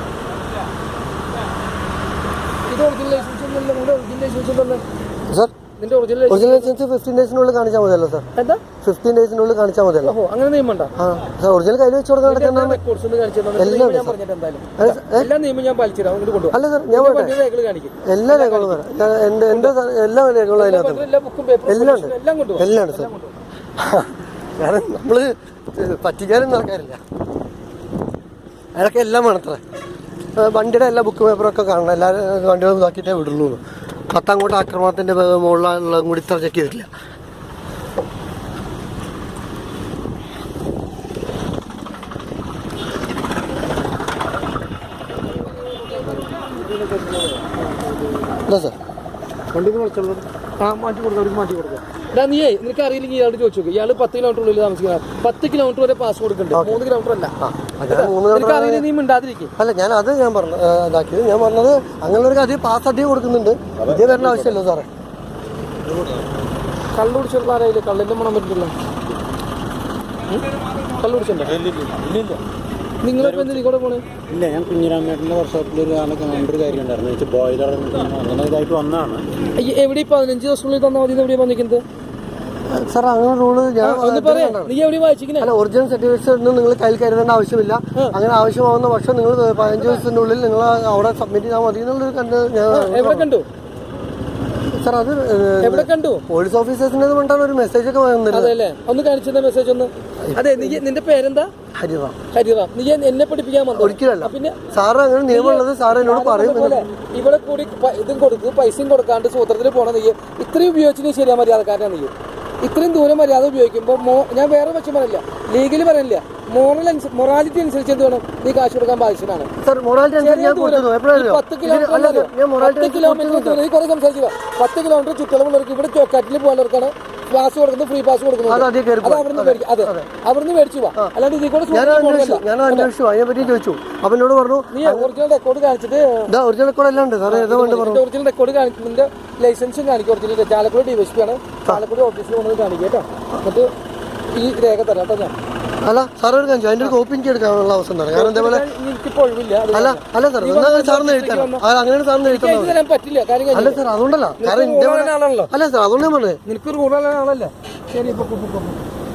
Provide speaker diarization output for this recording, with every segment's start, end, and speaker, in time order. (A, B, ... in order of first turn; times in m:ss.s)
0:02.7-0:04.8 A
0:05.3-0:05.5 B
0:05.8-0:06.7 A
0:06.3-0:08.2 B
0:08.4-0:08.6 A
0:08.8-0:10.1 B
0:10.0-0:10.9 A
0:11.0-0:12.8 B
0:12.2-0:18.8 A
0:13.6-0:14.2 B
0:14.8-0:15.3 B
0:16.5-0:17.4 B
0:18.0-0:21.0 B
0:19.5-0:19.7 A
0:20.6-0:23.3 A
0:21.7-0:23.1 B
0:23.8-0:27.0 B
0:28.7-0:29.6 B
0:30.3-0:36.9 B
0:48.4-0:48.8 B
0:49.5-0:57.3 A
0:56.5-0:56.8 B
0:57.4-0:58.8 B
0:57.9-0:59.5 A
0:59.6-1:04.9 B
1:03.8-1:04.5 C
1:06.9-1:08.7 A
1:10.3-1:11.6 A
1:11.6-1:12.4 C
1:13.0-1:14.0 A
1:13.2-1:13.6 C
1:14.3-1:19.2 C
1:19.6-1:21.8 A
1:22.7-1:24.7 B
1:23.8-1:25.5 A
1:25.4-1:33.3 B
1:32.7-1:33.5 A
1:34.7-1:38.5 B
1:35.6-1:36.2 A
1:38.3-1:41.5 A
1:40.2-1:40.8 B
1:41.7-1:42.2 B
1:42.3-1:44.6 A
1:43.7-1:46.8 B
1:45.3-1:59.5 A
1:59.6-2:03.6 B
2:00.2-2:12.9 A
2:08.5-2:10.1 B
2:11.7-2:15.1 B
2:14.7-2:16.3 A
2:16.3-2:18.0 B
2:17.2-2:23.7 A
2:24.3-2:25.3 A
2:25.8-2:28.7 B
2:28.1-2:31.6 A
2:29.7-2:32.8 B
2:32.2-2:33.8 A
2:33.5-2:36.4 B
2:34.4-2:35.5 A
2:36.4-2:38.8 A